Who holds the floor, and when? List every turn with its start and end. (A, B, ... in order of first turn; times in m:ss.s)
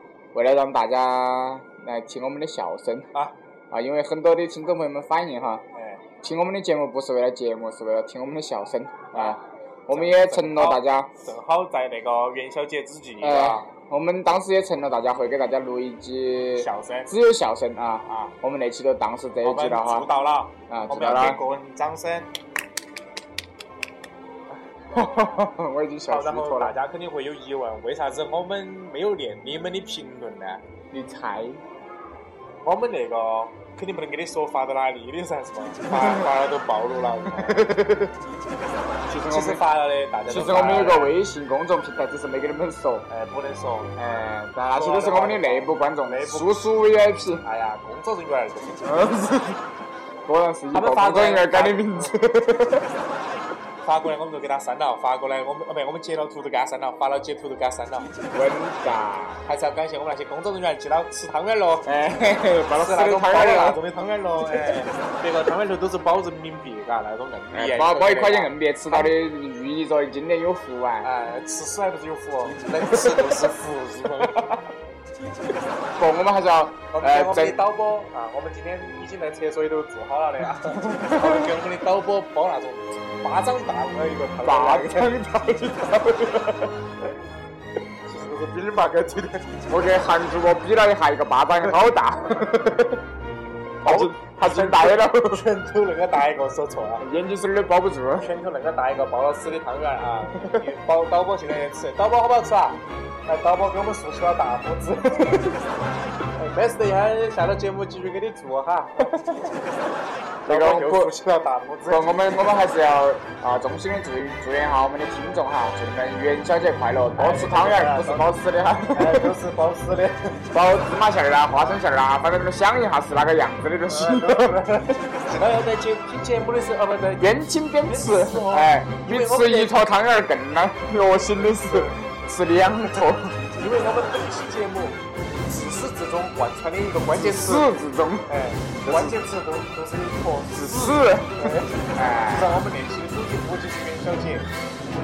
0:00.3-0:03.1 A
0:03.7-0:05.6 A
0:05.8-0:06.0 B
0:06.2-0:11.1 A
0:09.1-0:09.4 B
0:09.9-0:13.7 B
0:13.2-0:20.1 A
0:16.6-0:17.1 B
0:18.1-0:18.3 B
0:19.4-0:22.3 B
0:20.7-0:21.4 A
0:24.9-0:26.7 A
0:26.1-0:30.6 B
0:30.9-0:31.6 A
0:32.6-0:37.8 B
0:35.9-0:36.3 A
0:37.4-0:38.1 A
0:39.1-0:39.6 A
0:39.2-0:41.2 B
0:40.3-0:43.1 A
0:43.1-0:43.9 B
0:44.0-0:47.4 A
0:44.7-0:46.6 B
0:47.4-0:48.8 B
0:48.8-0:49.6 A
0:50.2-0:52.9 A
0:50.7-0:52.1 B
0:53.8-0:58.1 B
0:58.3-0:59.4 A
0:59.4-1:01.9 B
1:01.8-1:03.8 A
1:02.7-1:09.2 B
1:07.5-1:11.1 A
1:11.0-1:14.5 B
1:12.9-1:13.5 A
1:16.0-1:17.6 A
1:16.9-1:25.2 B
1:20.8-1:21.5 A
1:24.4-1:26.7 A
1:28.1-1:29.4 B
1:29.7-1:33.0 A
1:33.8-1:35.4 A
1:33.8-1:37.0 B
1:37.0-1:38.3 A
1:38.2-1:45.4 B
1:46.4-1:49.2 B
1:50.4-1:52.4 B
1:50.4-1:51.1 A
1:51.8-1:59.3 A
1:57.2-1:58.3 B
1:58.9-2:00.4 B
2:00.5-2:04.7 A
2:03.9-2:09.8 B
2:07.2-2:13.4 A
2:11.2-2:11.9 B
2:13.5-2:17.7 B
2:17.1-2:18.3 A
2:18.3-2:24.5 B
2:18.8-2:19.2 A
2:20.5-2:22.5 A